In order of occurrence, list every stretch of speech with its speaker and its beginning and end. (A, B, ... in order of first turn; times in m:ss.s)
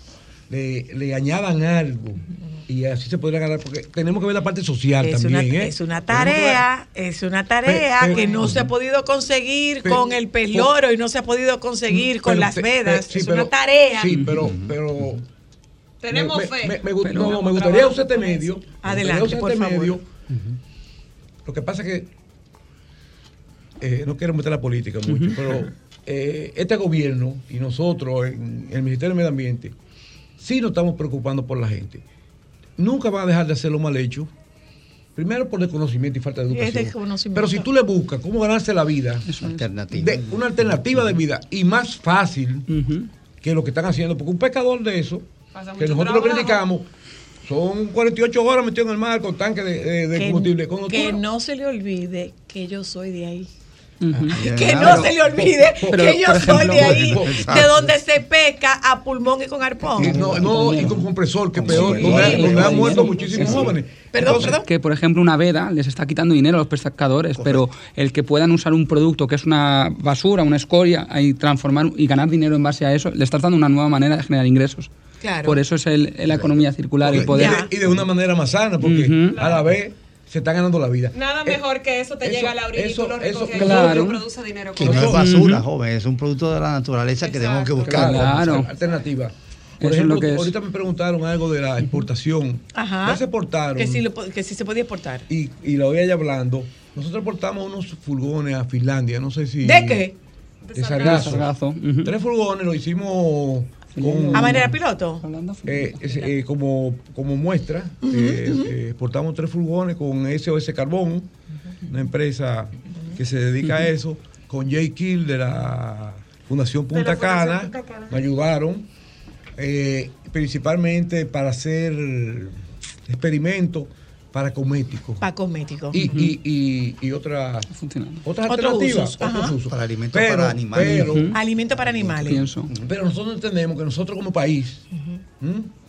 0:00.5-0:06.6 A
0:05.0-0:14.1 B
0:07.6-0:08.6 A
0:08.4-0:08.7 C
0:09.8-0:10.8 A
0:11.9-0:15.2 A
0:14.1-0:14.5 D
0:14.3-0:15.2 C
0:16.0-0:18.5 E
0:16.1-0:20.1 A
0:17.0-0:17.4 D
0:18.8-0:20.0 B
0:20.3-0:20.6 C
0:21.4-0:22.1 A
0:23.8-0:29.8 A
0:25.1-0:25.4 D
0:30.4-0:32.0 A
0:32.8-0:34.3 A
0:35.2-0:39.3 A
0:36.5-0:37.7 B
0:39.3-0:39.7 D
0:39.4-0:41.2 C
0:39.9-0:42.7 A
0:42.7-0:43.1 D
0:43.4-0:46.9 A
0:45.5-0:46.6 E
0:47.4-0:51.2 A
0:50.1-0:53.5 B
0:54.0-0:55.0 D
0:54.1-0:57.5 A
0:54.3-1:00.3 B
0:54.3-0:55.2 C
0:55.9-0:57.6 D
0:56.8-0:57.9 C
1:00.0-1:03.8 C
1:00.0-1:14.9 D
1:00.0-1:04.6 A
1:01.8-1:04.7 B
1:07.3-1:07.7 C
1:15.2-1:15.6 B
1:15.4-1:17.7 D
1:16.2-1:18.0 C
1:17.0-1:21.6 A
1:17.3-1:17.7 B
1:18.8-1:19.5 D
1:19.3-1:19.7 E
1:21.1-1:25.2 E
1:22.2-1:24.1 A
1:23.6-1:24.3 D
1:24.8-1:28.6 C
1:24.8-1:25.2 A
1:25.0-1:25.7 D
1:27.2-1:29.0 E
1:27.9-1:28.7 D
1:27.9-1:34.1 A
1:29.8-1:30.6 D
1:32.7-1:35.3 B
1:35.3-1:40.1 A
1:39.6-1:40.2 B
1:40.7-1:41.5 E
1:40.7-1:41.5 A
1:41.0-1:42.2 D
1:42.0-1:44.7 A
1:44.0-1:46.4 D
1:44.3-1:45.2 B
1:45.7-1:51.3 A
1:48.0-1:48.7 B
1:51.9-1:58.9 A
1:53.6-1:53.9 D
1:56.9-1:58.2 E
1:59.6-2:02.6 A
2:03.1-2:05.2 A
2:05.2-2:06.0 B
2:05.9-2:07.7 A
2:05.9-2:06.4 D
2:07.7-2:08.2 D
2:08.2-2:11.3 A
2:08.5-2:09.6 B
2:09.7-2:12.9 C
2:10.8-2:11.4 D
2:11.3-2:12.4 B
2:12.2-2:12.7 D
2:12.8-2:14.9 A
2:15.4-2:15.7 A